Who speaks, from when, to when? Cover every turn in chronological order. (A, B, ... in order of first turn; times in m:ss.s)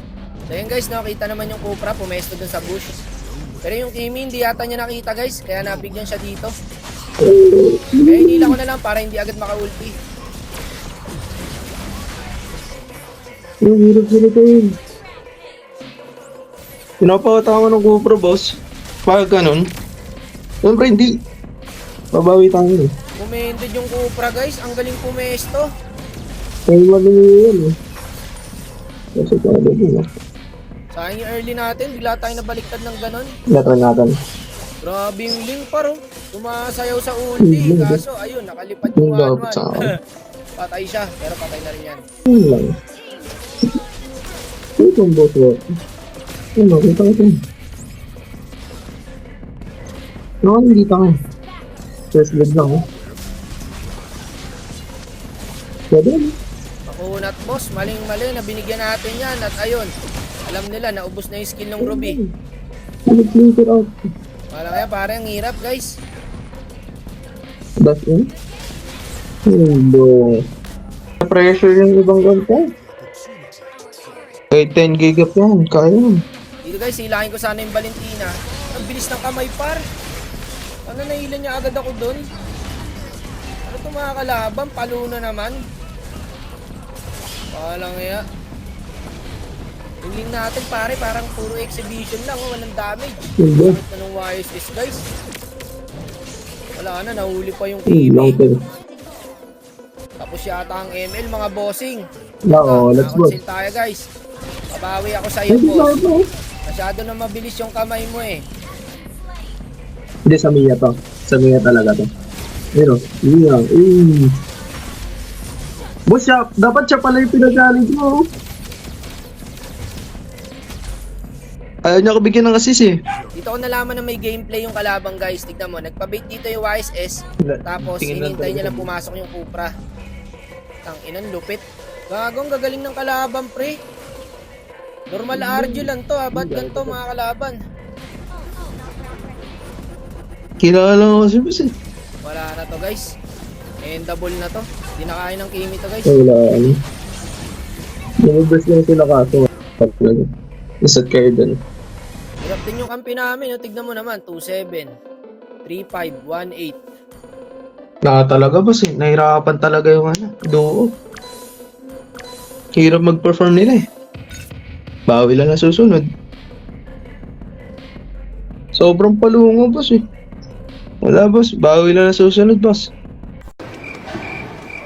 0:00.5-0:03.0 A
0:03.6-0:06.5 A
0:07.2-0:08.5 B
0:08.0-0:09.9 A
0:13.6-0:14.8 B
0:17.0-0:18.5 B
0:19.1-0:19.6 B
0:20.6-0:21.1 B
0:22.1-0:22.9 B
0:23.2-0:25.7 A
0:26.7-0:27.7 B
0:29.2-0:30.1 B
0:30.9-0:33.3 A
0:33.5-0:34.1 B
0:34.8-0:39.9 A
0:37.4-0:38.0 B
0:39.0-0:39.9 B
0:40.6-0:42.0 A
0:42.3-0:42.8 B
0:44.8-0:45.6 B
0:46.6-0:47.4 B
0:50.4-0:51.2 B
0:52.1-0:52.8 B
0:55.9-0:56.3 B
0:56.9-0:59.9 A
1:00.5-1:02.2 A
1:01.8-1:02.3 B
1:03.1-1:03.9 B
1:04.5-1:05.9 A
1:07.8-1:08.3 B
1:09.5-1:10.4 B
1:11.2-1:12.6 B
1:14.5-1:16.2 B
1:16.7-1:19.8 A
1:20.9-1:22.2 A
1:23.7-1:25.6 A
1:27.5-1:28.2 A
1:30.0-1:35.0 A
1:33.4-1:33.8 B
1:36.8-1:38.4 A
1:37.9-1:38.6 B
1:40.2-1:42.0 A
1:42.5-1:43.4 B
1:42.6-1:44.0 A
1:44.7-1:45.9 A
1:45.5-1:46.2 B
1:46.7-1:48.4 A
1:50.3-1:52.1 B
1:52.8-1:54.3 B
1:56.1-1:58.2 B
2:01.8-2:02.9 B
2:03.4-2:09.7 A
2:07.4-2:08.9 B
2:10.8-2:13.7 A
2:15.1-2:17.6 A
2:15.3-2:17.0 B
2:20.6-2:21.7 B
2:22.2-2:23.0 A
2:23.8-2:26.1 A
2:26.1-2:26.8 B
2:28.2-2:30.3 B
2:30.8-2:31.6 B
2:32.4-2:34.9 A
2:35.7-2:36.8 A
2:38.0-2:40.9 B
2:42.8-2:43.8 B
2:45.1-2:46.0 B
2:48.8-2:50.0 B
2:51.0-2:52.9 B